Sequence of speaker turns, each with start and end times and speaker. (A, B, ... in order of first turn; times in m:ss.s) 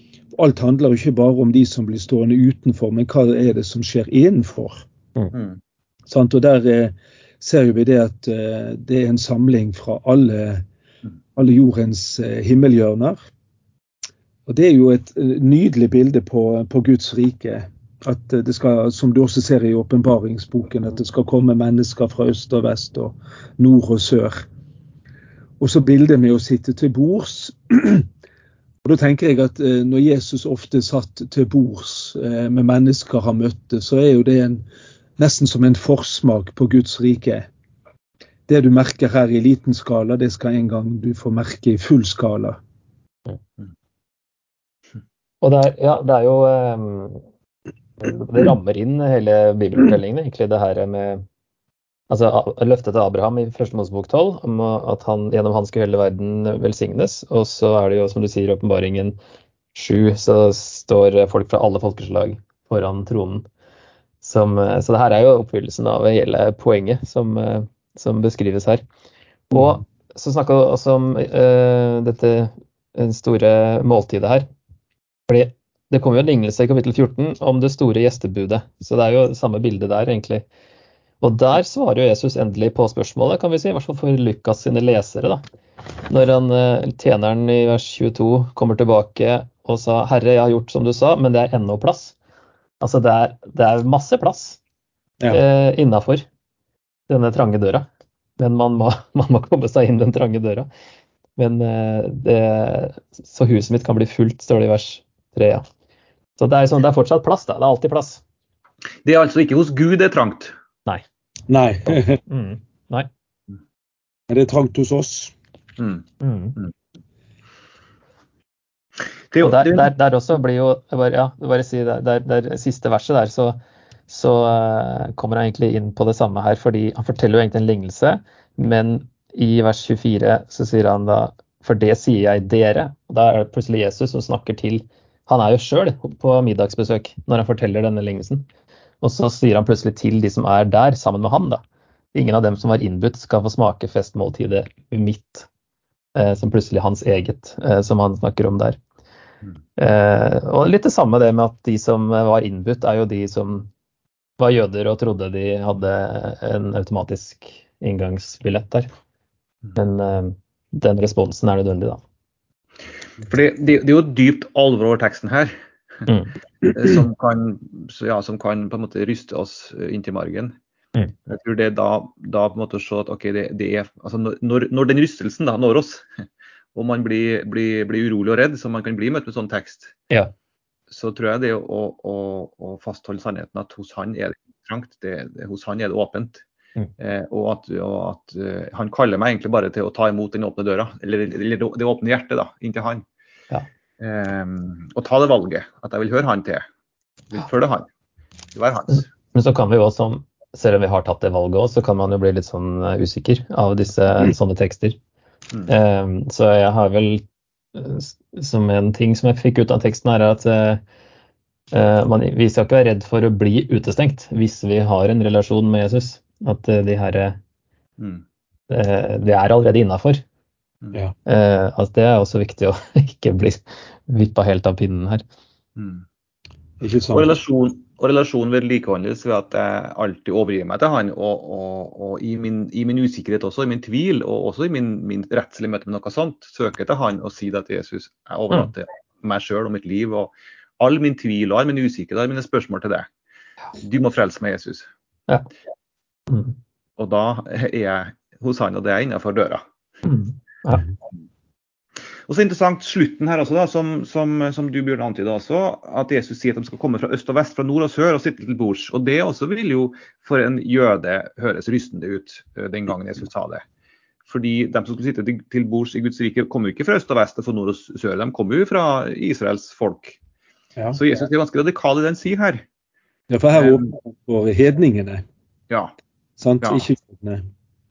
0:00.3-0:04.8 A
0:05.3-0:05.6 B
0:06.1-0:10.6 A
0:11.4-0:13.3 A
0:14.4-0:24.4 A
0:25.6-0:28.1 A
0:28.8-0:34.6 A
0:35.2-0:37.5 A
0:38.5-0:42.6 A
0:45.4-0:47.2 C
0:48.0-0:51.2 C
0:52.1-0:59.2 C
0:59.7-1:03.4 C
1:04.2-1:08.8 C
1:09.5-1:14.5 C
1:15.3-1:20.4 C
1:21.2-1:25.4 C
1:26.1-1:32.1 C
1:32.8-1:34.6 C
1:35.3-1:36.2 C
1:37.1-1:37.9 C
1:38.4-1:40.7 C
1:41.4-1:45.6 C
1:46.4-1:48.2 C
1:49.0-1:50.5 B
1:51.5-1:52.2 A
1:51.9-1:53.1 C
1:54.3-1:55.3 A
1:55.8-1:56.0 B
1:56.2-1:56.6 C
1:59.3-1:59.9 B
1:59.4-2:18.4 C
2:19.0-2:21.6 C
2:22.1-2:25.5 C
2:26.1-2:28.8 C
2:29.8-2:33.7 C
2:34.4-2:38.9 C
2:39.8-2:42.0 C
2:43.2-2:46.1 B
2:46.7-2:50.6 B
2:51.3-2:56.0 B
2:56.7-3:00.0 B
3:00.9-3:06.4 B
3:07.0-3:13.0 B
3:14.0-3:16.6 B
3:17.3-3:17.9 B
3:18.5-3:19.1 B
3:19.3-3:25.0 C
3:25.7-3:30.8 C
3:31.7-3:37.4 C
3:38.0-3:38.2 B
3:38.7-3:40.2 C
3:41.2-3:45.2 C
3:45.8-3:46.0 B
3:46.8-3:47.4 A
3:47.1-4:03.1 B
4:03.8-4:04.9 B
4:06.3-4:06.5 C
4:07.0-4:09.6 B
4:10.0-4:10.8 C
4:12.3-4:23.6 B
4:24.2-4:30.2 B
4:30.9-4:32.6 B
4:33.3-4:35.2 A
4:33.6-4:33.9 B
4:36.4-4:37.4 A